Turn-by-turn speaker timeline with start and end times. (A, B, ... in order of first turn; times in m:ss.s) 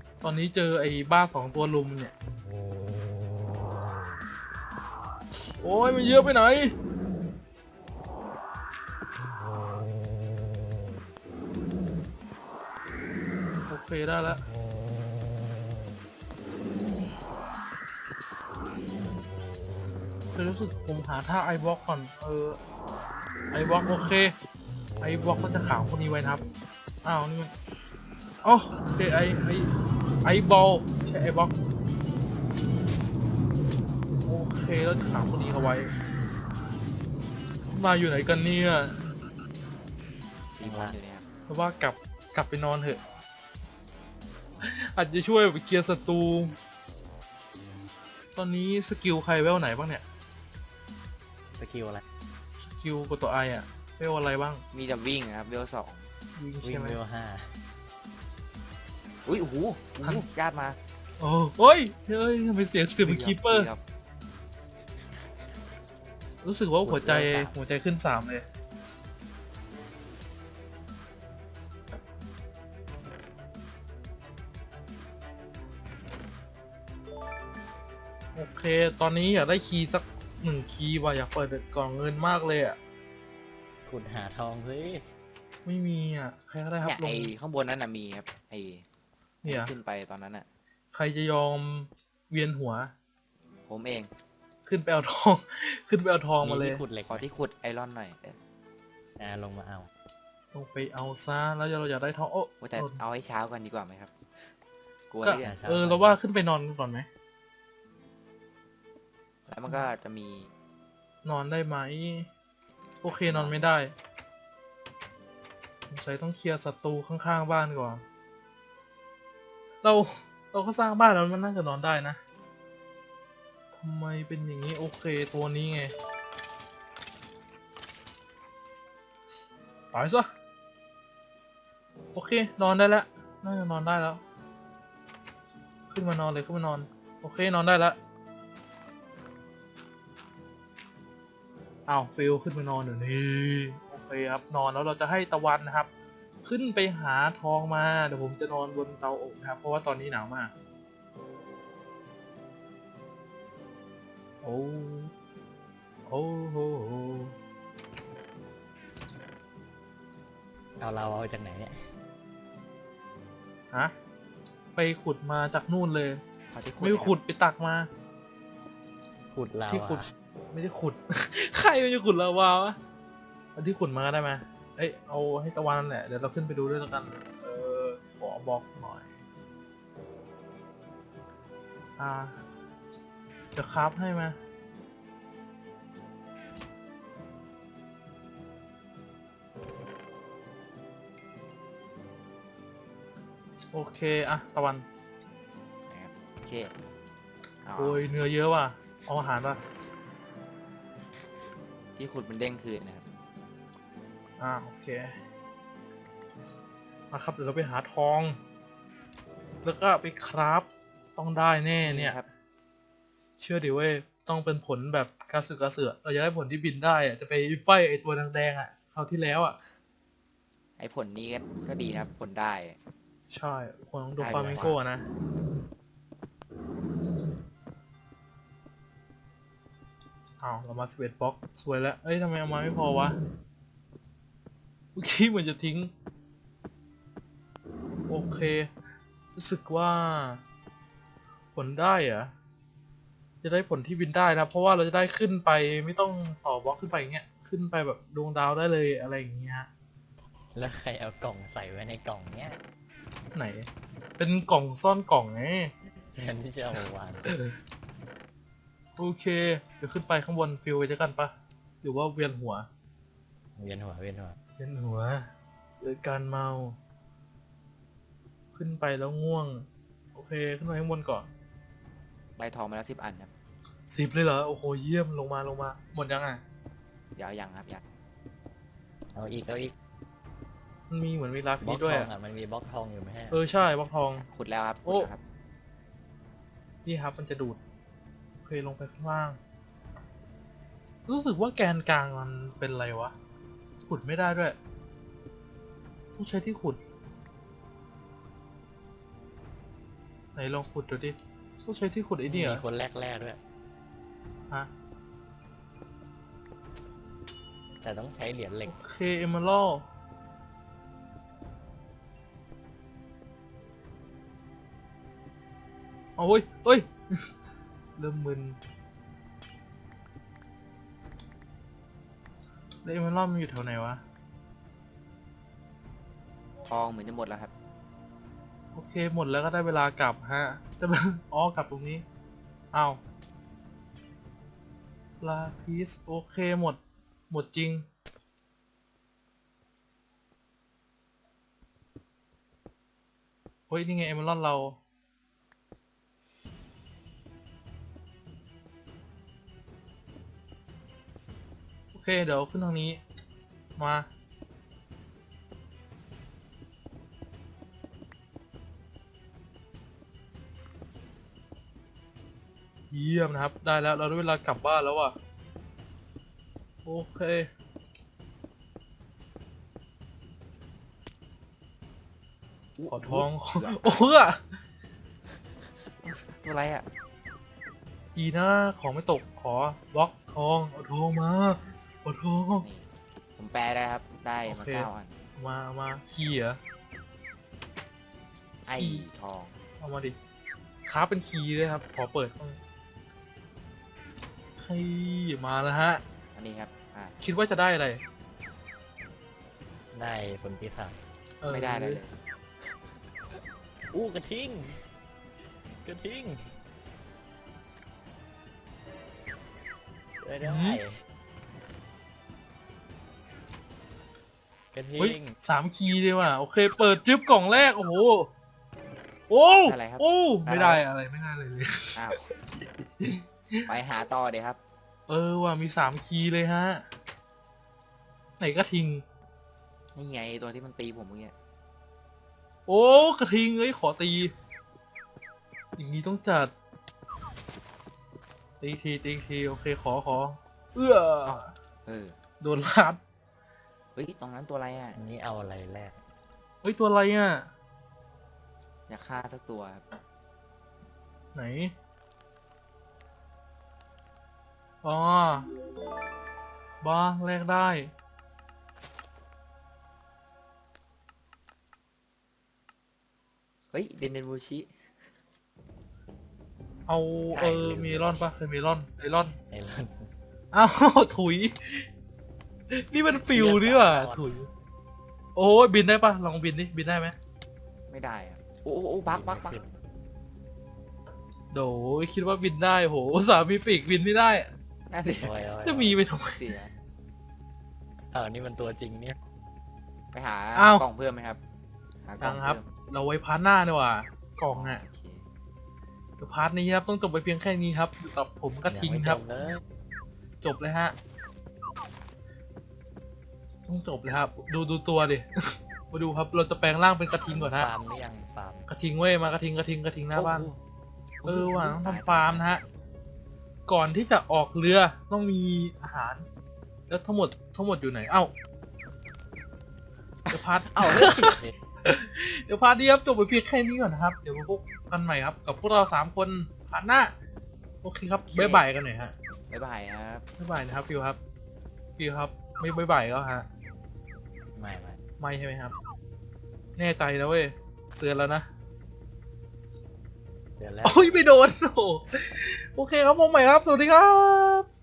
0:00.2-0:02.1 A
0:05.3-0:06.8 A
0:13.7-0:14.4 A
0:20.3-0:22.6 A
0:23.5-0:24.3 A
0:25.0-0:26.4 A
0:27.0-0:27.5 A
0:28.4-0:29.7 A
0:30.2-0:31.5 A
0:34.2-0:35.9 A
0:37.7-0:39.1 A
0:40.6-0:41.3 B
0:40.6-0:41.0 C
0:41.5-0:43.0 A
0:44.6-0:46.6 A
0:48.4-0:50.0 A
0:51.6-0:52.0 C
0:52.5-0:54.6 A
0:54.7-0:56.1 B
0:56.4-0:57.0 A
0:56.6-0:57.5 C
0:59.3-1:00.8 B
1:01.2-1:03.7 A
1:03.0-1:03.8 B
1:06.4-1:08.4 A
1:06.8-1:07.5 B
1:18.4-1:22.8 A
1:23.9-1:25.0 C
1:25.6-1:27.3 A
1:26.8-1:28.8 B
1:29.4-1:29.7 A
1:29.4-1:30.5 B
1:30.9-1:32.9 A
1:33.7-1:34.1 B
1:34.7-1:36.8 A
1:36.4-1:37.2 C
1:37.1-1:38.4 B
1:39.2-1:39.9 C
1:40.5-1:43.0 A
1:42.6-1:44.1 B
1:45.1-1:45.6 B
1:45.2-1:47.1 A
1:45.4-1:46.2 C
1:49.5-1:50.5 B
1:51.2-1:52.3 A
1:53.0-1:53.9 A
1:53.2-1:53.7 B
1:55.9-1:58.0 A
1:59.8-2:02.2 A
2:03.8-2:05.9 A
2:09.9-2:10.3 A
2:12.2-2:14.2 A
2:15.9-2:18.0 A
2:21.9-2:25.9 A
2:26.4-2:30.5 A
2:34.4-2:35.1 A
2:36.1-2:37.4 A
2:40.8-2:41.8 C
2:44.8-2:46.2 A
2:46.5-2:47.2 B
2:46.8-2:47.9 A
2:49.3-2:50.1 C
2:49.7-2:50.0 A
2:50.5-2:52.8 A
2:53.6-2:59.1 A
3:02.0-3:02.4 A
3:03.6-3:04.4 A
3:13.7-3:14.8 A
3:15.9-3:16.7 B
3:17.6-3:18.1 B
3:17.8-3:19.6 A
3:22.0-3:23.1 B
3:24.4-3:25.2 A
3:27.1-3:28.4 A
3:29.6-3:32.2 A
3:31.8-3:32.3 B
3:33.4-3:39.6 A
3:40.8-3:42.8 B
3:43.3-3:45.1 A
3:44.2-3:44.8 B
3:44.2-3:44.7 C
3:50.4-3:53.2 A
3:55.0-3:55.9 A
3:58.1-3:58.7 A
3:59.4-4:00.4 A
4:01.6-4:02.3 A
4:03.4-4:09.7 A
4:10.5-4:12.6 C
4:13.4-4:13.7 A
4:14.2-4:15.7 A
4:16.1-4:17.4 C
4:17.3-4:17.5 A
4:19.0-4:21.3 A
4:21.8-4:22.7 A
4:23.6-4:24.4 C
4:24.6-4:25.3 A
4:25.8-4:26.8 A
4:28.6-4:31.3 A
4:32.4-4:33.3 B
4:33.9-4:36.4 A
4:37.2-4:37.8 B
4:39.2-4:39.7 C
4:40.9-4:42.1 A
4:41.6-4:43.4 C
4:43.3-4:44.2 A
4:44.1-4:45.2 B
4:46.8-4:47.6 A
4:48.4-4:49.4 A
4:51.1-4:53.1 A
4:53.9-4:54.6 A
4:56.2-4:56.8 A
5:00.4-5:02.6 A
5:02.3-5:03.4 C
5:07.8-5:08.8 C
5:08.7-5:09.8 A
5:16.2-5:17.3 A
5:18.0-5:18.6 A
5:22.8-5:24.0 A
5:26.6-5:27.5 B
5:28.8-5:32.0 A
5:32.7-5:33.0 A
5:35.2-5:36.8 A
5:37.3-5:37.9 A
5:43.7-5:44.8 A
5:51.9-5:53.0 A
5:53.8-5:54.1 A
6:02.9-6:05.2 A
6:06.8-6:07.5 A
6:12.8-6:14.2 B
6:12.9-6:14.4 A
6:15.6-6:16.9 B
6:18.2-6:22.7 A
6:22.6-6:22.9 B
6:23.4-6:25.2 B
6:24.5-6:26.6 A
6:28.6-6:29.0 A
6:28.7-6:29.6 B
6:29.8-6:30.2 A
6:30.9-6:32.6 A
6:34.6-6:36.0 A
6:36.4-6:37.2 B
6:37.2-6:38.0 A
6:39.9-6:41.0 C
6:41.4-6:42.0 A
6:41.5-6:42.1 B
6:43.9-6:44.8 C
6:45.8-6:46.5 C
6:50.2-6:51.0 C
6:50.4-6:50.8 A
6:54.7-6:55.3 C
6:55.0-6:58.3 A
6:59.3-7:02.2 A
6:59.6-7:00.8 B
7:02.0-7:02.2 B
7:03.0-7:03.7 A
7:03.7-7:04.6 B
7:05.1-7:06.8 A
7:08.4-7:09.0 A
7:10.0-7:11.3 B
7:12.7-7:14.3 A
7:15.8-7:16.5 A
7:18.6-7:21.5 A
7:21.2-7:22.2 B
7:22.4-7:23.0 A
7:24.0-7:25.0 B
7:25.0-7:26.0 C
7:26.6-7:27.5 A
7:28.9-7:29.8 B
7:31.4-7:31.7 A
7:34.8-7:35.5 A
7:36.8-7:37.9 A
7:43.7-7:44.7 B
7:46.9-7:49.4 A
7:47.3-7:48.3 C
7:49.5-7:50.1 C
7:50.5-7:51.9 A
7:52.7-7:54.5 A
7:53.3-7:54.4 C
7:55.4-7:57.2 A
7:57.9-7:59.6 B
7:59.1-7:59.7 C
8:01.5-8:04.5 A
8:04.9-8:05.3 B
8:05.2-8:06.0 C
8:05.6-8:06.4 A
8:06.2-8:06.7 B
8:08.1-8:09.2 C
8:10.1-8:11.4 B
8:10.6-8:10.8 A
8:12.1-8:12.7 B
8:12.2-8:14.8 A
8:14.5-8:15.2 B
8:16.2-8:19.2 A
8:18.7-8:19.6 C
8:20.4-8:21.0 A
8:23.7-8:27.7 A
8:27.3-8:28.7 C
8:28.7-8:30.5 A
8:30.2-8:30.6 B
8:31.2-8:32.7 B
8:31.2-8:32.6 A
8:33.7-8:36.3 A
8:36.9-8:38.3 A
8:40.3-8:41.4 B
8:40.3-8:47.1 A
8:47.8-8:49.1 A
8:48.3-8:48.7 B
8:49.5-8:50.2 B
8:50.4-8:51.2 A
8:52.0-8:53.5 A
8:54.6-8:55.0 C
8:55.2-8:55.8 A
8:56.8-8:58.5 A
9:00.6-9:01.2 C
9:00.8-9:04.7 A